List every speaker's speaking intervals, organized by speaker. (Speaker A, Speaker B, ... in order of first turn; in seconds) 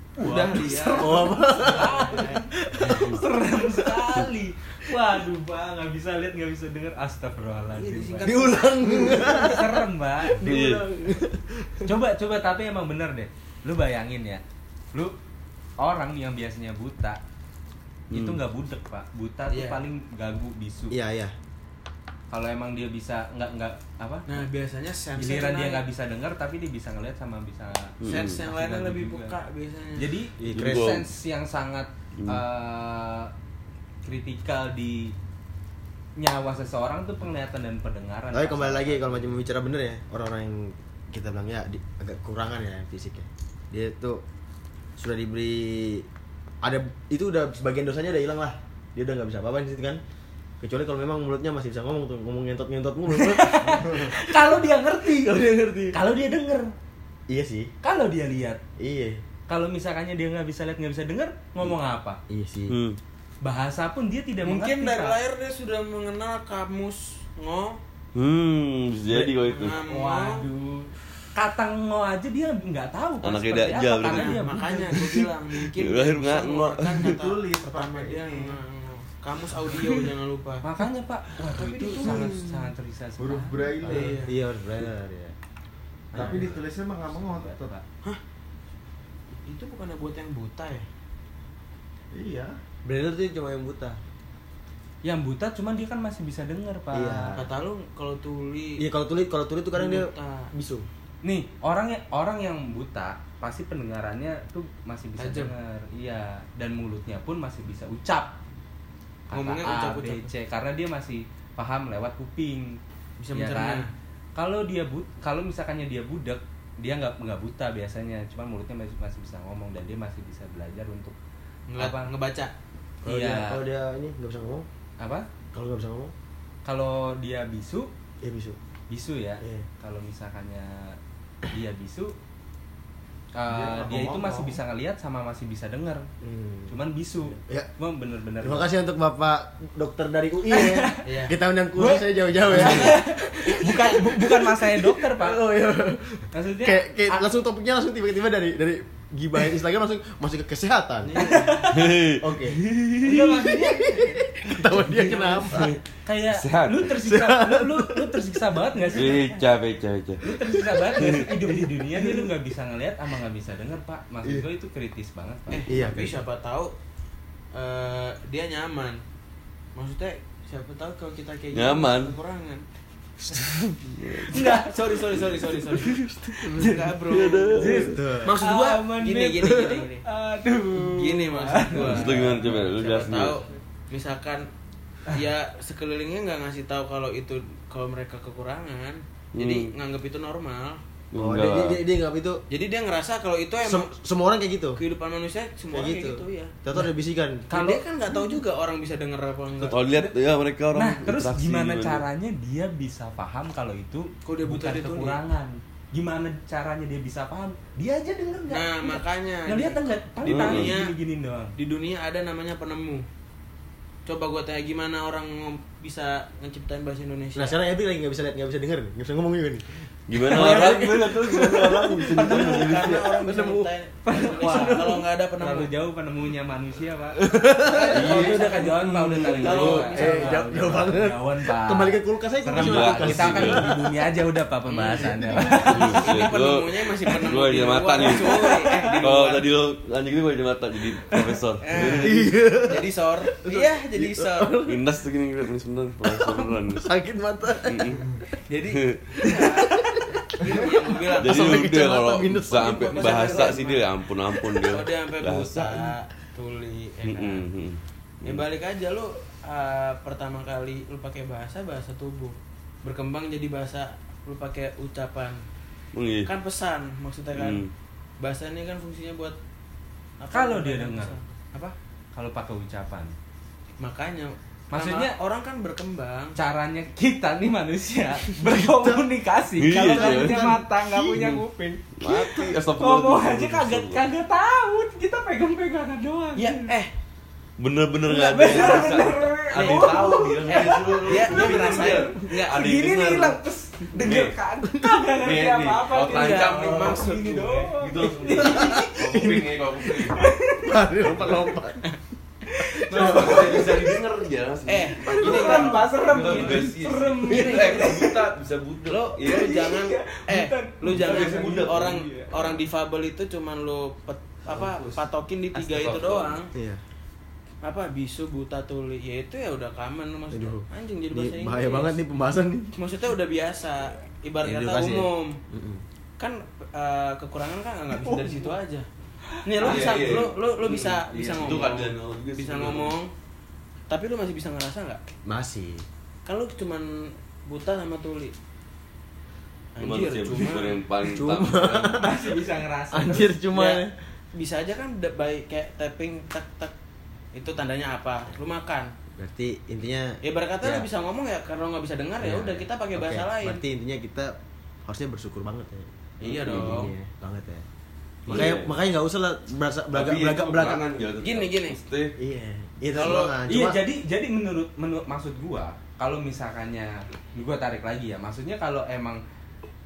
Speaker A: 0.2-2.5, 7.7-9.3, 19.5-19.8, 24.3-25.8, 28.1-30.1, 64.4-67.8, 69.5-70.4, 74.0-80.6, 81.4-82.5, 83.8-84.4, 89.5-90.9, 97.3-98.8, 99.7-100.5, 105.2-105.5, 109.3-110.3, 113.2-113.9, 121.7-122.5, 141.0-141.3, 142.4-143.1, 151.0-151.8, 165.5-166.7, 167.5-169.0, 169.8-172.6, 174.3-180.0, 180.8-184.5, 185.1-190.8, 192.5-193.9, 194.8-196.6, 197.5-199.8, 204.2-205.2, 208.5-210.9, 211.6-213.1, 214.1-217.6, 222.1-225.7, 227.6-230.6, 234.7-239.5, 241.6-244.6, 248.5-251.8, 252.6-253.9, 254.5-257.4, 258.2-265.4, 266.2-267.6, 268.2-269.4, 270.2-271.7, 273.8-276.4, 286.4-286.9, 288.5-288.9, 289.5-292.6, 295.9-297.7, 302.9-303.8, 304.6-306.7, 307.3-308.0, 308.9-316.5, 317.6-322.0, 322.8-325.4, 326.2-328.9, 329.4-333.1, 333.9-335.0, 336.2-338.3, 339.7-340.8, 343.5-346.7, 347.3-348.9, 350.2-353.6, 356.2-356.9, 361.2-361.8, 362.9-363.4
Speaker B: 0.2-10.6, 11.9-15.2, 15.8-17.2, 18.1-21.0, 22.3-24.4, 25.2-29.4, 30.0-33.3, 34.0-35.1, 36.2-39.4, 53.1-56.7, 57.8-58.6, 59.5-62.2, 63.4-65.2, 69.1-75.0, 80.6-84.1, 86.1-87.8, 95.0-97.3, 101.2-108.4, 109.3-112.8, 113.3-121.2, 121.8-122.1, 123.0-123.6, 125.0-125.3, 126.6-127.9, 128.9-131.0, 131.5-132.2, 133.3-136.1, 136.7-138.7, 140.5-141.1, 141.8-145.4, 146.3-147.3, 151.2-151.9, 153.0-155.5, 156.1-159.4, 160.2-165.7, 174.2-174.8, 176.5-176.9, 177.6-182.6, 197.5-198.3, 199.9-200.2, 200.7-211.6, 220.4-220.7, 224.1-227.2, 227.8-236.1, 270.3-271.1, 272.1-273.1, 274.7-275.1, 276.4-286.7, 288.1-299.3, 299.9-301.4, 302.5-303.7, 305.1-308.2, 309.2-312.6, 329.3-329.9, 341.9-343.4, 363.4-369.2
Speaker C: 0.9-3.2, 8.2-11.9, 20.9-21.3, 30.4-31.0, 38.3-44.2, 45.0-46.1, 46.6-50.0, 50.6-56.0, 57.3-57.7, 58.8-59.2, 62.3-62.8, 84.2-85.3, 86.2-86.4, 92.8-94.0, 96.9-97.5, 98.8-100.9, 123.0-124.7, 125.5-126.1, 128.2-128.6, 129.4-129.7, 136.2-136.7, 137.4-137.7, 138.4-152.6, 153.2-155.8, 156.9-158.2, 165.7-166.2, 177.7-178.3, 191.1-192.4, 193.6-194.8, 195.7-197.5, 217.3-223.7, 224.5-224.8, 227.2-228.6, 229.9-233.9, 234.8-236.0, 238.4-238.8, 241.8-244.9, 246.0-248.1, 249.2-253.6, 278.4-279.1, 279.7-281.3, 298.4-299.5, 300.6-301.9, 302.8-303.9, 316.5-316.8, 320.3-322.7, 324.4-325.8, 328.1-328.4, 335.2-335.9, 341.1-342.2, 342.9-343.9, 349.1-350.2, 352.2-355.9, 356.4-357.6, 358.2-360.8, 362.2-363.8
Speaker D: 2.9-3.2, 10.4-10.9, 18.1-18.4, 28.0-28.4, 30.5-31.1, 62.7-63.0, 68.1-69.8, 73.2-77.2, 151.7-153.4, 155.4-156.9, 158.9-161.6, 171.5-172.1, 173.3-174.4, 175.1-178.0, 181.8-183.4, 189.4-189.7, 191.1-191.8, 199.6-202.0, 210.2-210.7, 220.1-223.1, 227.9-229.9, 232.5-233.7, 235.7-242.3, 244.6-246.8, 247.6-248.2, 248.7-249.3, 251.1-255.9, 257.1-258.4, 265.9-266.3, 267.3-267.7, 279.6-280.6, 281.1-281.4, 282.0-284.0, 287.6-293.4, 293.9-294.4, 295.1-297.1, 297.7-300.2, 302.9-309.6, 310.9-312.5, 314.5-314.9, 315.5-316.4, 329.6-332.9, 339.8-342.2, 356.2-356.9, 358.3-358.7, 359.9-362.1
Speaker E: 77.0-78.6, 83.2-84.2, 86.1-87.7, 92.1-92.5, 133.5-134.6